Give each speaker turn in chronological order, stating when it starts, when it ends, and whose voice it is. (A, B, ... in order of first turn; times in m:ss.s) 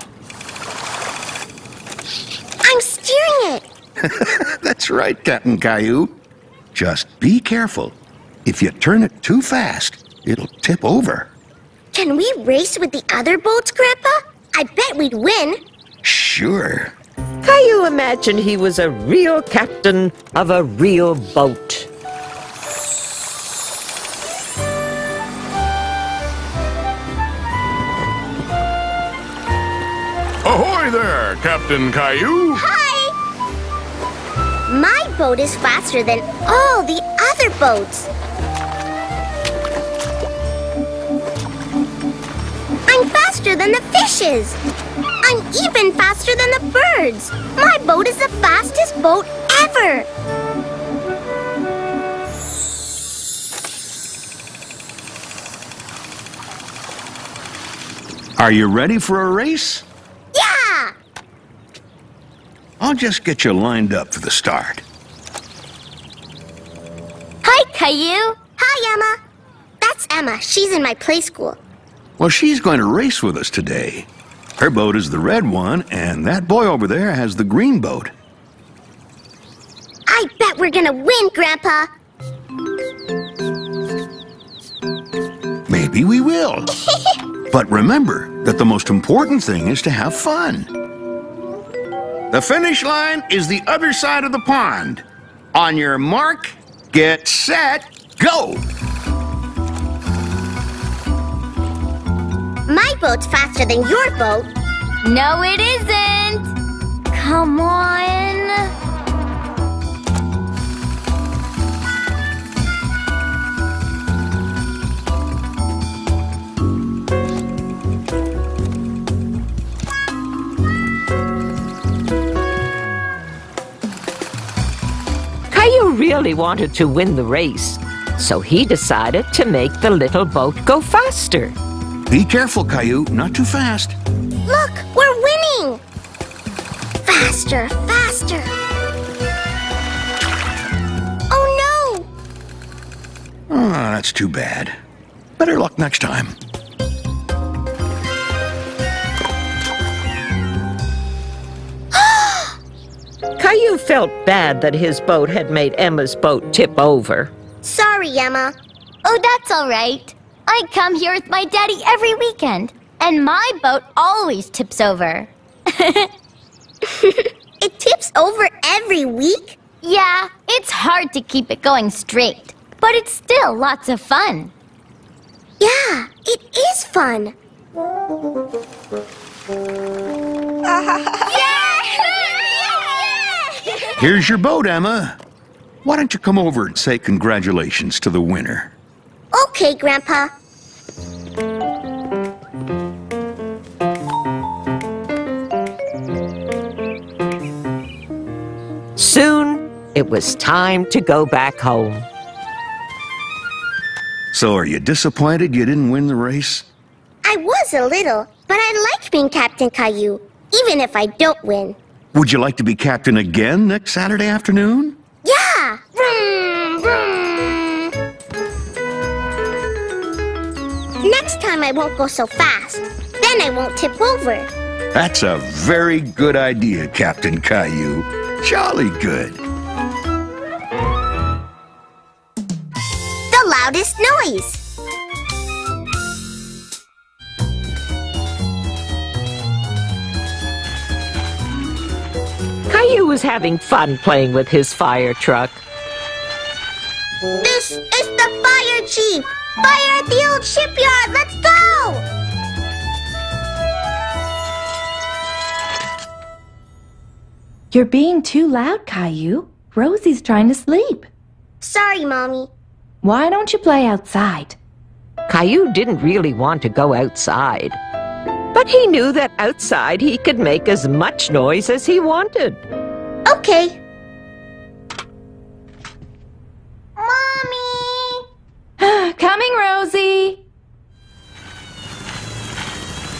0:02.6-0:03.6 A
0:04.0-0:06.2 B
0:06.7-0:11.3 B
0:11.9-0:15.6 A
0:16.0-0:16.9 B
0:17.4-0:21.9 C
0:30.4-0:32.6 D
0:32.5-0:33.1 A
0:34.7-0:38.1 A
0:42.9-0:44.6 A
0:45.2-0:50.1 A
0:58.4-0:59.8 B
1:00.3-1:00.9 A
1:02.8-1:04.8 B
1:07.4-1:08.4 E
1:08.6-1:09.2 A
1:09.8-1:11.6 A
1:12.2-1:18.1 B
1:20.1-1:21.9 A
1:25.7-1:26.7 B
1:27.5-1:30.7 B
1:32.3-1:38.7 B
1:42.7-1:44.5 A
1:45.0-1:46.5 E
1:47.1-1:48.6 E
2:05.5-2:11.6 C
2:12.1-2:14.0 B
2:14.5-2:15.8 A
2:17.0-2:18.5 A
2:21.3-2:22.1 A
2:23.5-2:24.8 B
2:25.4-2:26.4 B
2:31.9-2:32.6 A
2:33.4-2:37.3 C
2:37.6-2:38.5 A
2:39.0-2:46.0 E
2:46.9-2:49.6 A
2:49.8-2:54.5 E
2:55.6-2:57.3 A
3:01.3-3:03.8 A
3:04.0-3:05.2 B
3:05.8-3:08.7 B
3:09.3-3:10.3 A
3:19.0-3:22.1 C
3:24.3-3:26.7 B
3:27.2-3:31.8 A
3:32.1-3:35.0 B
3:35.2-3:37.9 A
3:41.0-3:44.5 A
3:44.9-3:49.4 B
3:53.3-3:54.6 A
4:02.7-4:05.6 C
4:07.4-4:12.0 A
4:17.7-4:21.1 F
4:21.6-4:22.5 A
4:23.0-4:24.6 F
4:25.3-4:27.8 C
4:28.5-4:32.6 C
4:33.2-4:33.8 A
4:37.0-4:38.2 A
4:38.8-4:40.4 F